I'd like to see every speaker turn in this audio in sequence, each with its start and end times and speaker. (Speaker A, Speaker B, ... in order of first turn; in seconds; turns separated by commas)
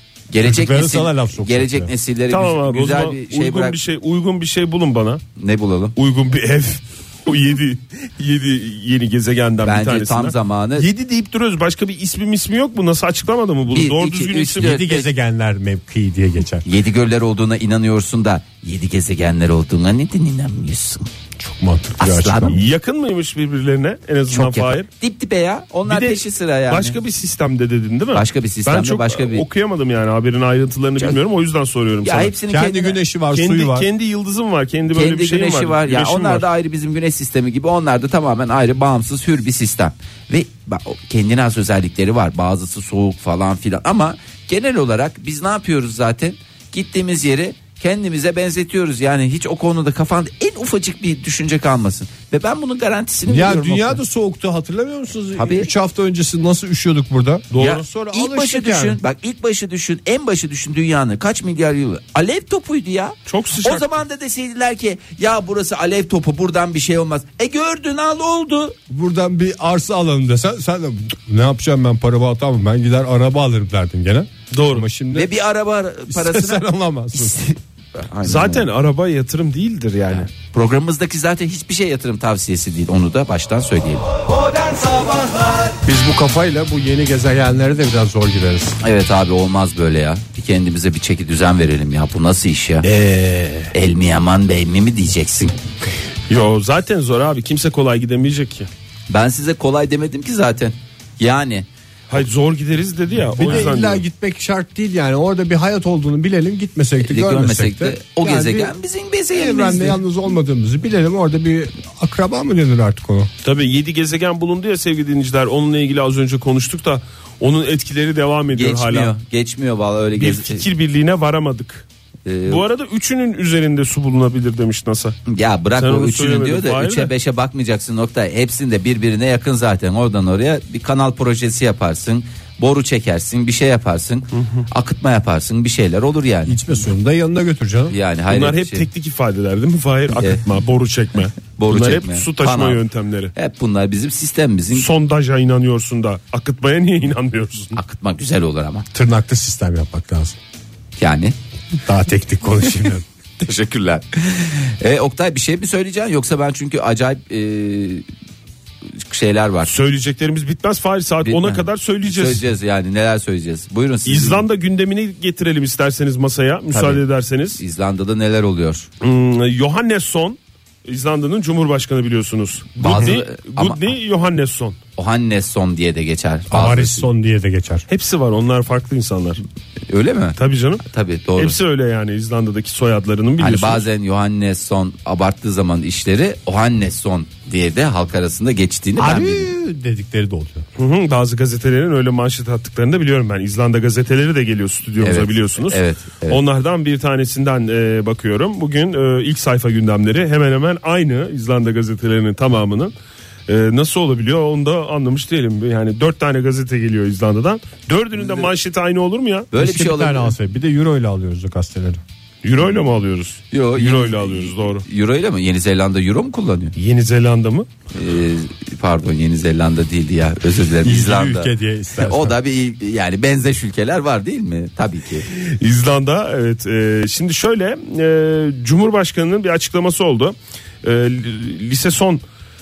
Speaker A: 0.3-3.8, Speaker B: 0.4-1.9, Speaker C: 2.3-5.2, Speaker A: 5.4-6.0, Speaker C: 6.0-14.8, Speaker A: 9.7-10.9, Speaker A: 13.7-15.1, Speaker B: 14.6-16.7, Speaker A: 16.6-21.1, Speaker B: 21.4-22.6, Speaker A: 22.0-22.6, Speaker C: 22.5-24.9, Speaker A: 24.3-27.0, Speaker C: 25.9-32.3, Speaker A: 28.1-29.5, Speaker A: 32.0-33.0, Speaker B: 32.5-33.9, Speaker C: 33.3-36.5, Speaker A: 34.9-54.0, Speaker B: 53.3-59.0, Speaker A: 55.4-55.7, Speaker C: 57.5-57.8, Speaker A: 57.6-68.8, Speaker C: 63.3-63.9, Speaker B: 68.9-75.3, Speaker C: 74.5-74.9, Speaker A: 75.1-78.7, Speaker B: 76.1-77.4, Speaker C: 78.2-80.3, Speaker A: 80.1-84.2, Speaker B: 85.8-88.8, Speaker A: 88.8-92.9, Speaker B: 92.9-93.7, Speaker A: 93.7-95.6, Speaker C: 96.3-98.7, Speaker A: 99.1-101.7, Speaker C: 102.1-104.0, Speaker B: 103.3-108.8, Speaker A: 107.0-110.0, Speaker B: 109.3-113.3, Speaker C: 113.4-119.2, Speaker A: 118.5-120.7, Speaker C: 120.2-121.9, Speaker A: 122.3-122.6, Speaker C: 122.5-125.2, Speaker A: 125.3-136.6, Speaker C: 125.8-127.1, Speaker C: 134.3-134.7, Speaker B: 136.5-138.0, Speaker A: 137.9-138.9, Speaker C: 138.3-143.3, Speaker A: 141.6-142.8, Speaker A: 143.3-144.9, Speaker C: 144.7-147.8, Speaker A: 147.7-148.9, Speaker B: 148.9-150.4, Speaker A: 151.0-151.3, Speaker B: 151.9-153.0, Speaker A: 153.4-158.1, Speaker A: 158.9-159.7, Speaker C: 159.7-162.4, Speaker A: 161.2-164.5, Speaker C: 164.1-167.6, Speaker A: 166.7-167.0, Speaker A: 167.6-168.9, Speaker C: 169.0-174.8, Speaker A: 172.8-173.9, Speaker A: 175.0-177.1, Speaker B: 176.5-177.9, Speaker C: 177.9-179.4, Speaker A: 179.9-180.4, Speaker C: 180.4-180.8, Speaker A: 180.9-181.6, Speaker C: 181.4-183.8, Speaker A: 183.4-189.5, Speaker B: 189.0-190.7, Speaker C: 190.8-202.9, Speaker A: 195.0-196.4, Speaker C: 203.5-209.5, Speaker A: 209.5-210.3, Speaker B: 209.5-212.0, Speaker C: 212.4-214.9, Speaker A: 213.5-216.8, Speaker C: 216.8-217.7, Speaker A: 217.9-225.3, Speaker B: 220.8-222.4, Speaker C: 225.3-232.2